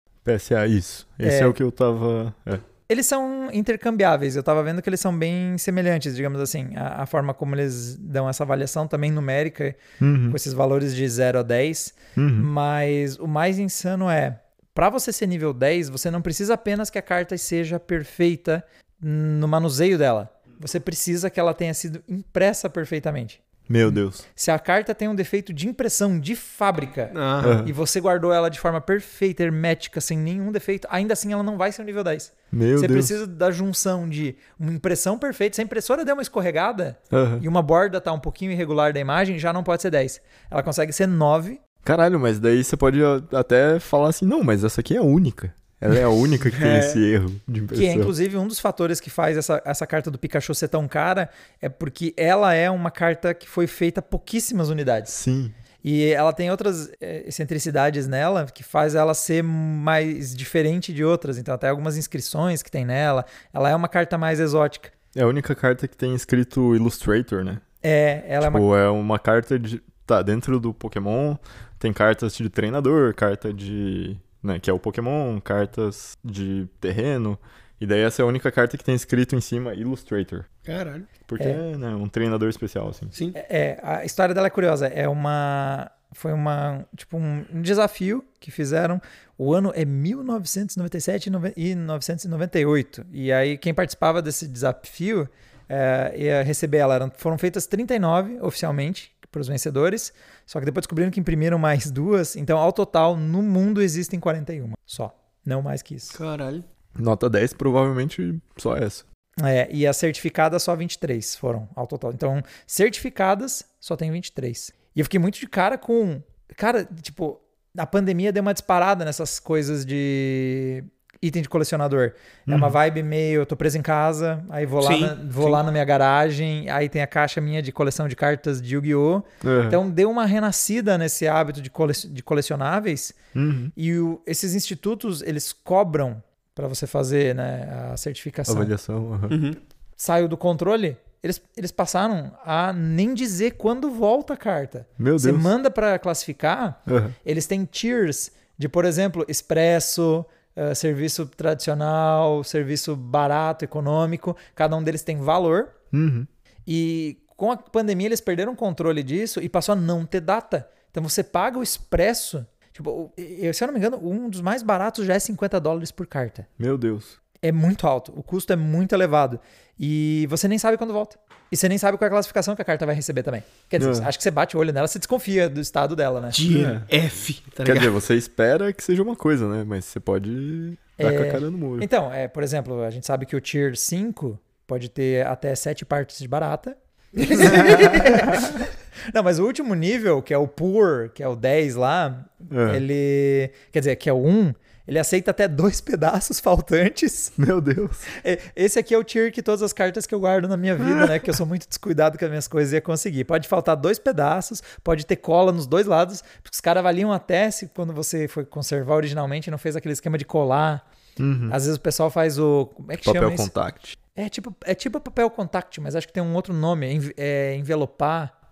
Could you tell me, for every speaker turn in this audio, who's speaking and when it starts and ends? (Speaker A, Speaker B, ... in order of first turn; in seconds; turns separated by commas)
Speaker A: 0.2-2.6, Speaker B: 1.2-1.6, Speaker B: 2.9-41.6, Speaker A: 10.0-10.4, Speaker A: 12.2-12.5, Speaker A: 23.7-24.2, Speaker C: 27.1-27.6, Speaker A: 27.4-27.7, Speaker A: 32.5-33.1, Speaker A: 37.1-37.5, Speaker A: 41.8-48.1, Speaker C: 46.4-47.0, Speaker B: 47.7-55.1, Speaker A: 55.1-55.5, Speaker B: 55.8-64.9, Speaker A: 65.1-67.6, Speaker B: 67.8-68.6, Speaker A: 68.4-80.5, Speaker C: 80.6-81.1, Speaker A: 81.3-83.1, Speaker B: 83.3-106.2, Speaker C: 106.1-106.6, Speaker A: 107.0-109.0, Speaker B: 109.4-133.2, Speaker A: 122.5-122.8, Speaker C: 124.8-125.6, Speaker A: 129.4-129.8, Speaker A: 133.3-133.7, Speaker B: 133.8-138.7, Speaker A: 138.5-139.4, Speaker C: 139.3-139.6, Speaker B: 140.0-155.7, Speaker A: 145.0-145.5, Speaker A: 146.9-147.1, Speaker A: 155.9-156.3, Speaker B: 156.7-166.5, Speaker A: 166.6-167.2, Speaker B: 167.4-176.4, Speaker A: 173.8-174.1, Speaker C: 176.3-177.9, Speaker A: 176.5-176.9, Speaker A: 177.6-181.9, Speaker B: 181.0-188.6, Speaker C: 187.2-188.2, Speaker A: 187.5-188.4, Speaker B: 189.1-197.3, Speaker A: 192.5-192.8, Speaker A: 197.4-198.1, Speaker B: 198.1-210.8, Speaker A: 211.2-211.6, Speaker B: 211.5-213.5, Speaker A: 213.0-214.0, Speaker B: 214.1-218.3